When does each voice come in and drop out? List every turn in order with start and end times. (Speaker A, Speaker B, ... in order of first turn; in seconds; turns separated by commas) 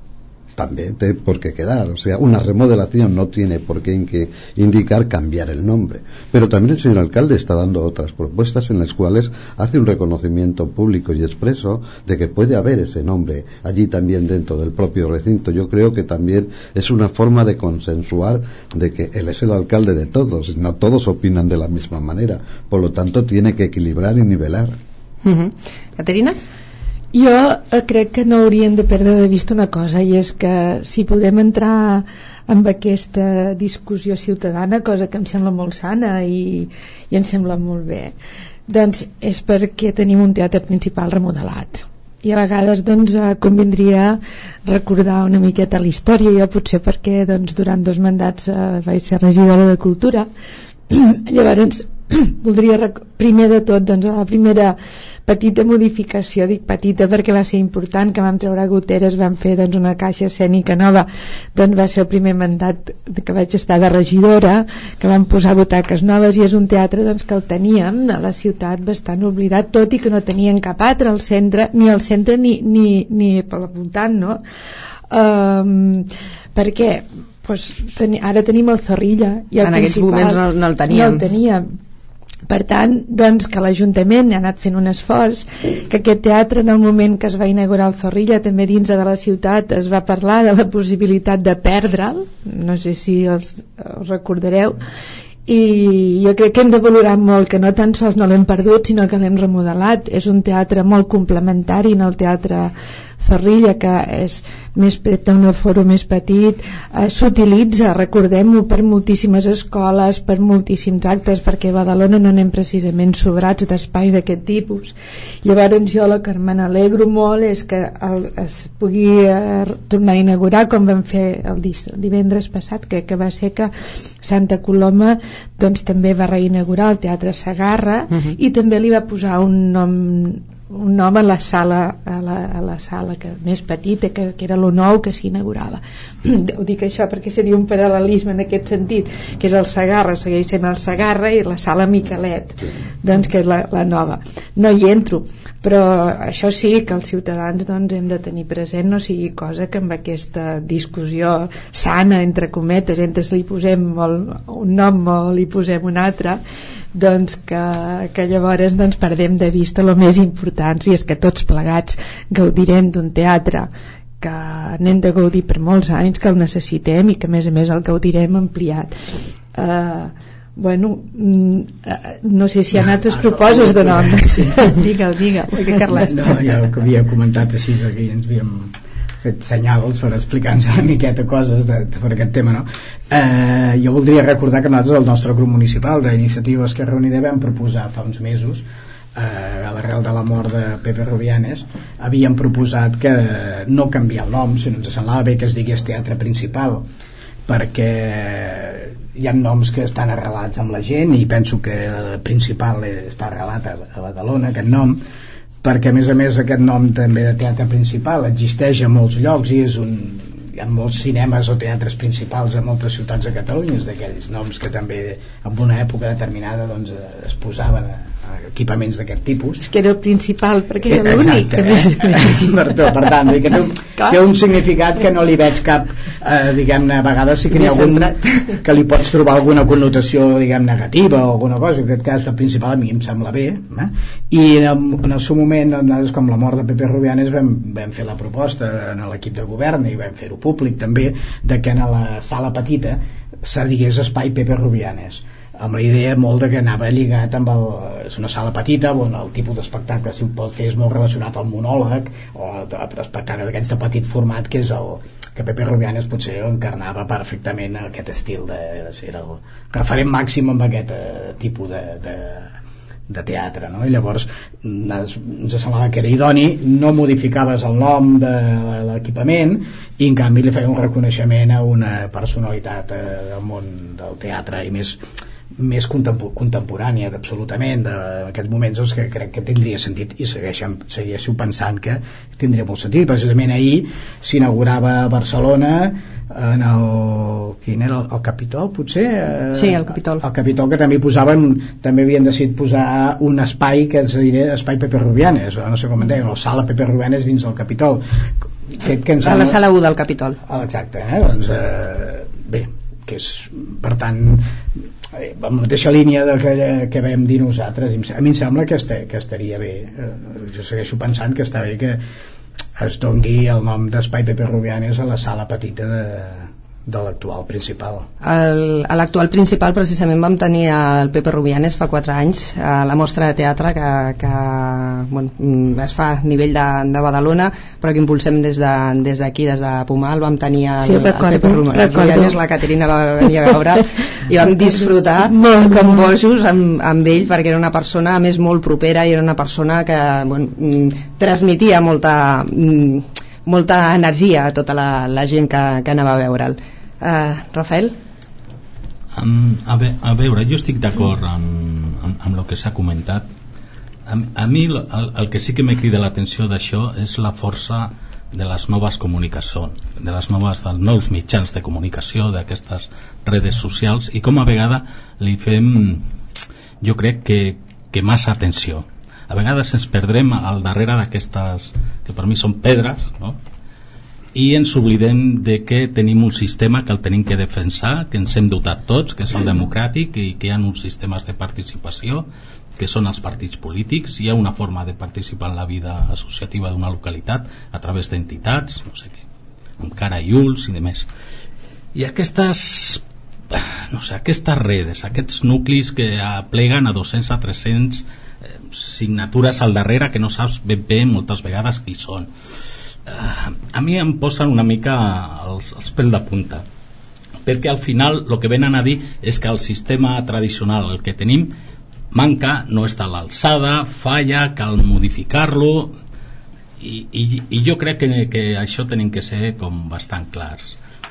Speaker A: 0.6-24.8, Speaker B: 25.2-26.4, Speaker C: 27.1-38.1, Speaker C: 38.7-50.3, Speaker C: 50.9-74.4, Speaker C: 75.1-81.7, Speaker B: 79.6-81.2, Speaker C: 82.5-94.8, Speaker C: 95.5-123.7, Speaker C: 124.2-156.4, Speaker C: 156.9-163.7, Speaker C: 164.2-168.9, Speaker C: 169.5-176.1, Speaker D: 173.1-174.8, Speaker D: 175.6-196.9, Speaker D: 197.5-205.0, Speaker D: 205.6-219.7, Speaker C: 219.7-222.5, Speaker D: 220.9-262.5, Speaker B: 227.5-228.4, Speaker D: 263.1-275.0, Speaker D: 275.6-298.0, Speaker B: 289.5-290.2, Speaker D: 298.8-299.6, Speaker B: 299.2-300.4, Speaker D: 300.5-304.5, Speaker D: 305.1-312.0, Speaker D: 312.8-318.1, Speaker B: 318.2-348.0, Speaker C: 330.8-332.4, Speaker C: 335.3-336.1, Speaker E: 349.1-353.3, Speaker E: 354.1-366.0, Speaker E: 366.8-373.4, Speaker E: 374.3-382.3, Speaker E: 382.8-389.2, Speaker E: 389.8-391.1, Speaker E: 391.9-398.1, Speaker E: 398.7-402.3, Speaker E: 403.1-406.6, Speaker E: 407.4-411.5, Speaker E: 412.1-415.9, Speaker E: 416.8-420.8